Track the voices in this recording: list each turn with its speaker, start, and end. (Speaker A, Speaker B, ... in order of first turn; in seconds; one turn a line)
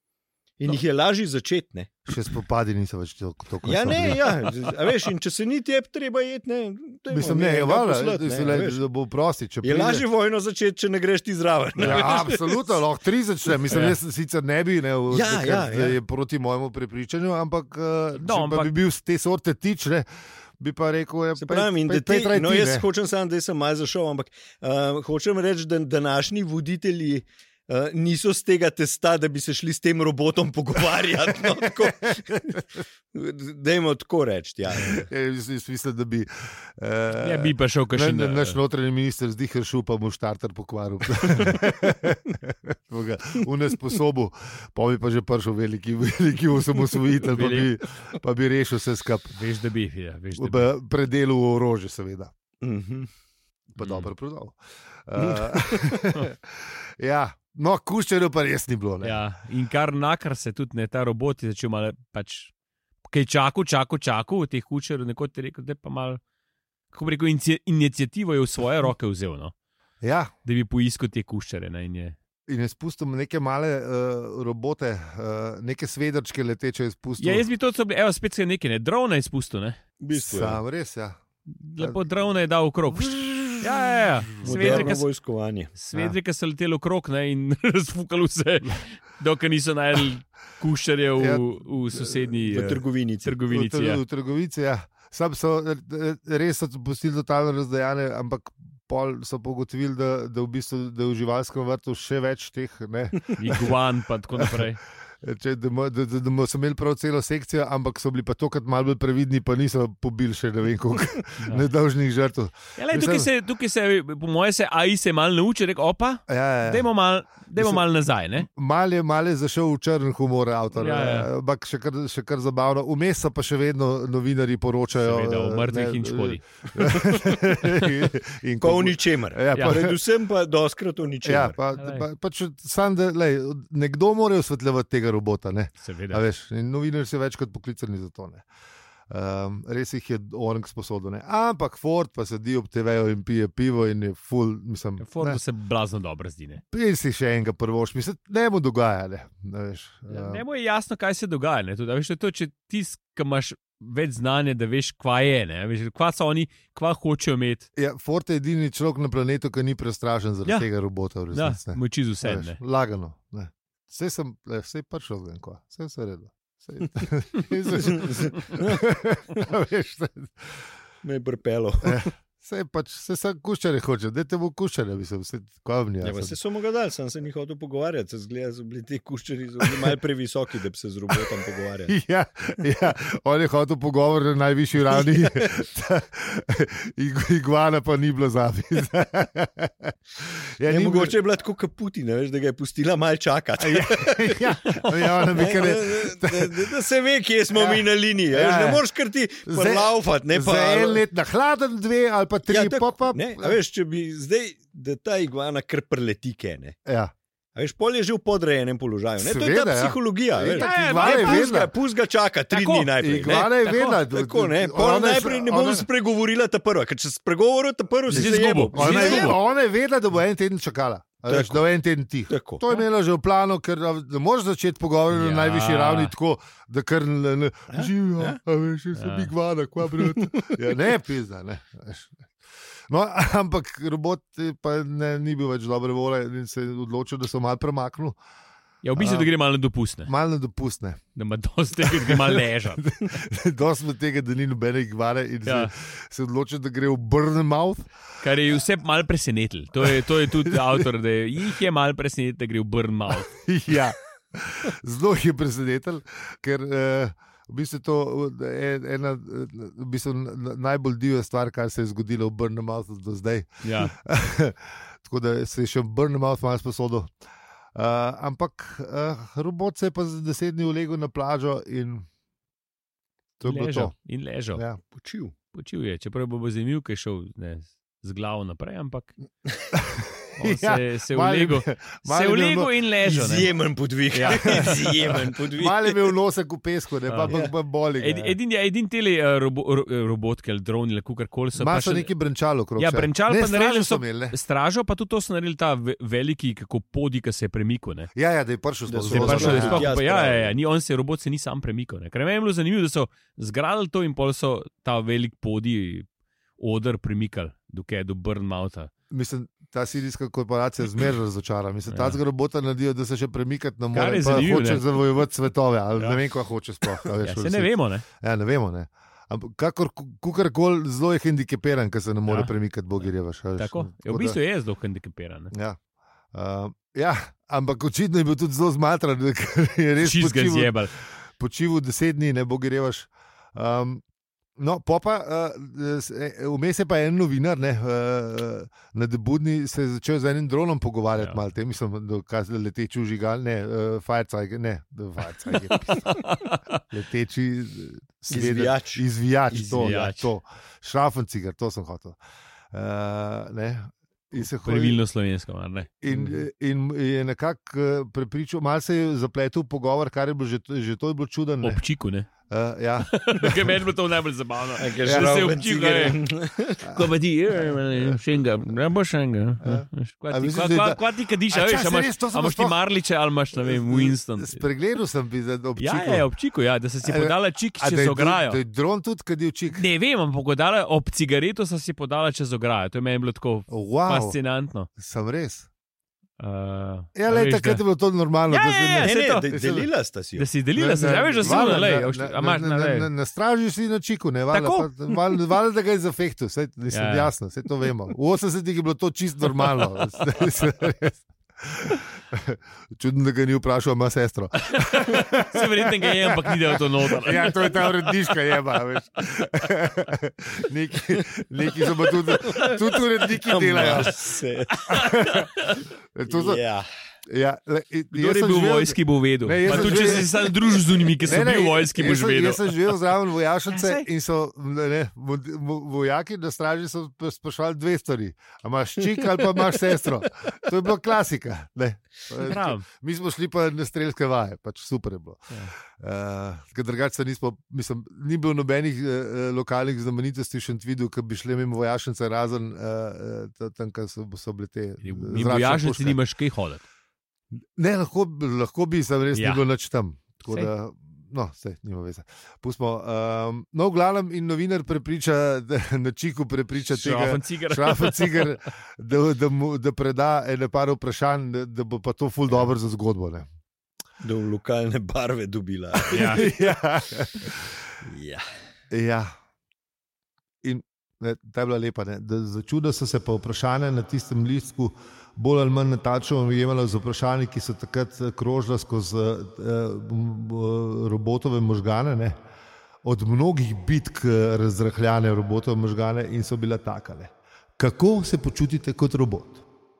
Speaker A: 0.6-2.1
Speaker B: 2.1-4.5
Speaker A: 3.6-8.8
Speaker B: 7.1-10.0
Speaker A: 9.6-12.8
Speaker B: 11.8-20.1
Speaker C: 13.7-13.9
Speaker A: 15.1-16.0
Speaker C: 18.1-18.7
Speaker B: 20.6-22.8
Speaker A: 21.4-35.1
Speaker B: 34.8-49.4
Speaker C: 37.2-38.6
Speaker C: 47.2-47.7
Speaker C: 49.3-50.7
Speaker B: 50.4-52.3
Speaker A: 52.6-53.1
Speaker B: 53.8-59.2
Speaker C: 53.8-54.1
Speaker A: 55.2-56.1
Speaker C: 59.0-62.5
Speaker C: 63.1-66.2
Speaker C: 66.9-69.5
Speaker B: 70.0-70.3
Speaker C: 70.4-72.2
Speaker B: 72.5-77.4
Speaker C: 77.2-79.8
Speaker A: 80.0-80.6
Speaker B: 80.1-81.2
Speaker C: 81.5-85.0
Speaker B: 82.9-84.9
Speaker A: 84.4-85.7
Speaker C: 85.7-94.0
Speaker B: 91.2-92.8
Speaker A: 92.5-93.3
Speaker B: 93.5-103.7
Speaker C: 103.3-104.8
Speaker B: 104.4-104.6
Speaker B: 105.2-113.3
Speaker C: 111.4-111.7
Speaker C: 112.8-118.5
Speaker B: 116.3-116.9
Speaker B: 117.5-117.8
Speaker B: 118.4-129.9
Speaker C: 120.8-121.3
Speaker C: 125.0-126.4
Speaker A: 128.6-131.6
Speaker C: 129.5-129.8
Speaker B: 131.2-138.4
Speaker C: 131.7-132.1
Speaker C: 135.8-136.2
Speaker B: 139.1-145.4
Speaker C: 145.0-146.6
Speaker B: 146.7-150.4
Speaker C: 150.1-157.7
Speaker B: 157.8-170.6
Speaker C: 161.3-162.6
Speaker A: 167.8-168.8
Speaker A: 171.0-172.1
Speaker B: 171.8-176.3
Speaker A: 176.0-182.0
Speaker B: 179.6-179.9
Speaker B: 181.9-191.1
Speaker A: 185.2-185.5
Speaker A: 190.7-194.5
Speaker B: 193.6-196.8
Speaker C: 194.7-195.3
Speaker A: 195.3-201.0
Speaker B: 197.5-198.8
Speaker B: 199.4-203.6
Speaker A: 202.5-206.8
Speaker B: 206.8-207.1
Speaker A: 207.5-219.3
Speaker B: 209.2-211.7
Speaker C: 210.5-211.5
Speaker C: 212.5-214.0
Speaker B: 213.0-215.8
Speaker C: 218.1-219.4
Speaker B: 218.1-232.3
Speaker A: 221.3-221.6
Speaker A: 222.3-222.6
Speaker C: 225.1-226.1
Speaker A: 227.7-228.4
Speaker C: 228.9-229.3
Speaker A: 230.0-230.6
Speaker B: 232.9-238.2
Speaker C: 238.8-240.1
Speaker B: 238.9-239.3
Speaker B: 240.1-241.0
Speaker C: 241.2-242.9
Speaker B: 241.8-247.9
Speaker C: 245.4-245.7
Speaker C: 248.2-253.4
Speaker B: 249.8-250.9
Speaker B: 253.3-267.1
Speaker C: 263.6-263.9
Speaker B: 267.7-272.1
Speaker B: 273.4-273.9
Speaker C: 273.4-274.6
Speaker B: 274.5-274.8
Speaker A: 274.9-275.3
Speaker C: 275.5-279.1
Speaker B: 279.7-283.3
Speaker C: 280.4-283.5
Speaker A: 283.1-286.1
Speaker C: 284.1-284.8
Speaker B: 284.3-288.4
Speaker C: 287.1-287.4
Speaker C: 288.0-292.1
Speaker B: 291.6-294.4
Speaker C: 292.8-298.1
Speaker B: 298.1-299.9
Speaker A: 298.9-300.6
Speaker C: 299.1-306.1
Speaker C: 306.6-308.9
Speaker B: 309.1-324.4
Speaker C: 311.9-312.2
Speaker C: 313.9-315.0
Speaker C: 317.1-318.1
Speaker C: 322.3-322.5
Speaker C: 323.6-325.5
Speaker B: 325.5-325.8
Speaker B: 326.3-334.0
Speaker C: 330.0-330.9
Speaker B: 334.6-346.3
Speaker C: 341.2-341.4
Speaker C: 345.5-346.8
Speaker B: 346.9-352.1
Speaker A: 348.3-349.0
Speaker C: 349.5-350.3
Speaker B: 352.7-355.0
Speaker C: 354.4-356.4
Speaker B: 356.0-361.8
Speaker C: 361.6-362.3
Speaker B: 362.5-363.7
Speaker C: 363.1-366.2
Speaker A: 364.8-366.9
Speaker B: 365.0-365.4
Speaker C: 366.8-374.6
Speaker B: 367.6-368.2
Speaker B: 369.6-372.8
Speaker B: 373.6-376.3
Speaker C: 375.8-378.6
Speaker B: 377.0-379.8
Speaker C: 379.7-384.9
Speaker B: 383.7-384.4
Speaker B: 385.0-385.7
Speaker C: 386.4-387.8
Speaker B: 387.1-389.9
Speaker C: 388.5-389.5
Speaker A: 389.0-390.5
Speaker C: 390.4-393.1
Speaker B: 390.8-414.2
Speaker C: 394.5-395.4
Speaker C: 396.9-397.3
Speaker C: 399.9-400.4
Speaker C: 404.6-408.1
Speaker A: 411.8-414.9
Speaker C: 414.8-415.8
Speaker B: 414.9-416.6
Speaker A: 416.2-416.9
Speaker B: 417.3-420.3
Speaker C: 418.1-423.0
Speaker A: 419.6-420.3
Speaker B: 421.2-446.2
Speaker C: 423.7-424.1
Speaker C: 432.4-432.9
Speaker C: 445.0-446.8
Speaker B: 447.8-463.5
Speaker C: 449.3-449.6
Speaker C: 456.9-458.5
Speaker A: 464.2-466.6
Speaker C: 466.1-466.5
Speaker B: 466.1-467.8
Speaker A: 468.0-468.4
Speaker B: 468.9-469.3
Speaker B: 470.6-482.4
Speaker B: 483.0-489.6